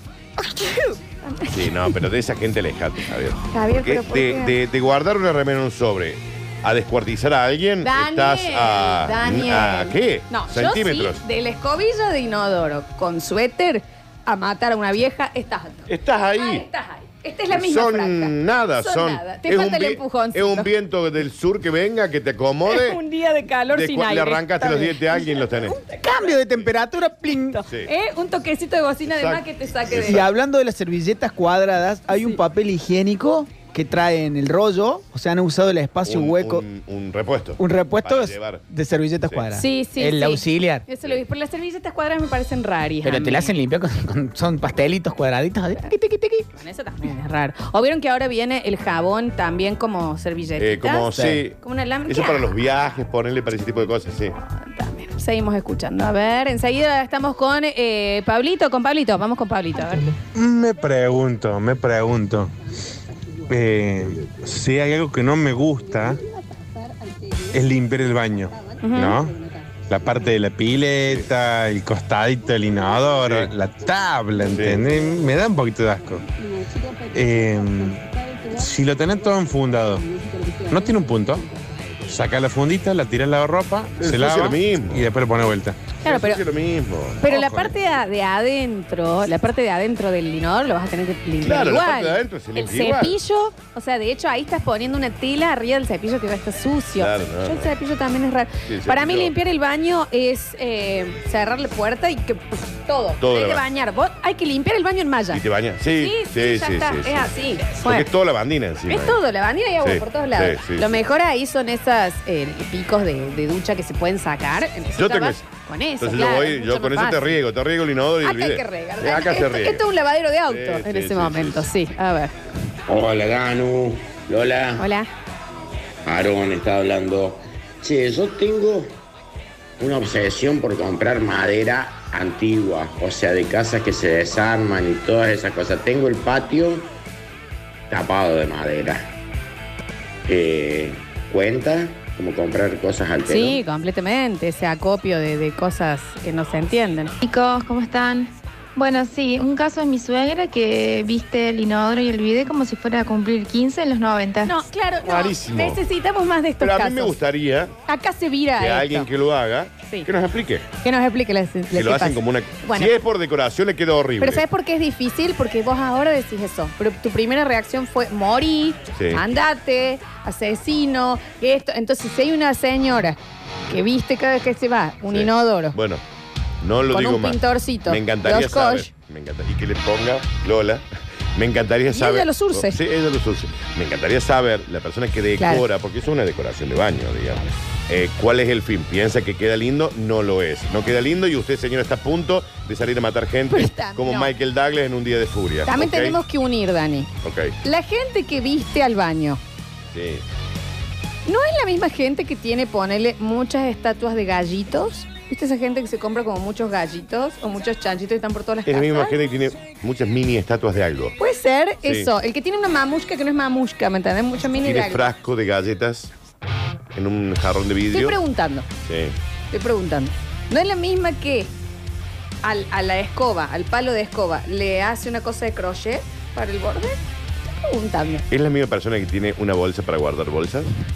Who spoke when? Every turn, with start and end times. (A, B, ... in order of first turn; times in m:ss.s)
0:00.4-0:02.0 A
0:01.5-0:11.2 B
0:03.5-0:04.6 A
0:07.8-0:20.7 A
0:15.9-0:16.6 B
0:17.5-0:23.0 B
0:22.7-0:26.4 A
0:23.7-0:25.8 B
0:25.9-0:27.6 C
0:27.4-0:30.3 A
0:29.0-0:30.3 B
0:30.0-0:36.6 C
0:32.1-0:32.4 A
0:36.1-0:38.7 B
0:37.6-0:40.8 C
0:39.5-0:43.5 A
0:43.0-0:46.5 C
0:46.5-0:52.9 A
0:50.6-0:54.3 B
0:51.1-0:51.4 C
0:54.4-1:00.1 A
1:00.4-1:02.5 D
1:03.5-1:06.2 D
1:07.5-1:09.3 D
1:08.8-1:09.2 A
1:09.9-1:16.2 D
1:13.2-1:13.5 B
1:14.5-1:14.9 B
1:17.1-1:20.0 D
1:20.7-1:21.5 D
1:22.1-1:25.9 D
1:24.0-1:25.1 B
1:26.0-1:26.4 A
1:26.0-1:27.3 B
1:27.2-1:45.4 A
1:27.3-1:27.7 D
1:31.4-1:33.2 B
1:37.0-1:37.7 B
1:38.7-1:39.3 B
1:43.2-1:43.6 B
1:45.3-1:47.3 B
1:46.0-1:48.1 A
1:47.8-1:49.2 B
1:48.9-1:57.4 A
1:49.8-1:50.9 B
1:55.0-1:55.5 B
1:56.0-1:59.8 B
1:58.2-2:02.3 A
2:00.5-2:01.7 B
2:02.9-2:04.9 E
2:04.8-2:05.1 A
2:06.1-2:08.9 E
2:09.8-2:16.9 E
2:17.9-2:19.1 E
2:20.3-2:23.6 E
2:23.3-2:27.2 A
2:27.2-2:34.6 F
2:34.4-2:37.1 A
2:35.0-2:35.8 B
2:36.6-2:37.7 B
2:37.9-2:39.1 A
2:38.6-2:40.7 B
2:40.8-2:42.9 A
2:41.7-2:44.4 B
2:44.2-2:53.2 A
2:49.0-2:49.2 B
2:53.7-2:55.8 A
2:55.1-2:56.0 B
2:56.6-3:16.2 B
2:56.9-2:58.9 A
3:01.9-3:02.8 A
3:05.4-3:05.6 A
3:13.5-3:14.3 A
3:15.7-3:17.1 A
3:17.2-3:17.6 B
3:17.6-3:19.4 A
3:19.9-3:20.2 B
3:21.3-3:29.2 A
3:28.7-3:31.2 B
3:31.2-3:35.0 A
3:31.8-3:32.1 B
3:34.6-3:36.1 B
3:36.9-3:38.2 B
3:37.9-3:38.7 A
3:38.8-3:39.2 B
3:39.5-3:41.5 A
3:42.4-3:47.0 A
3:47.6-3:48.3 A
3:48.3-3:50.7 B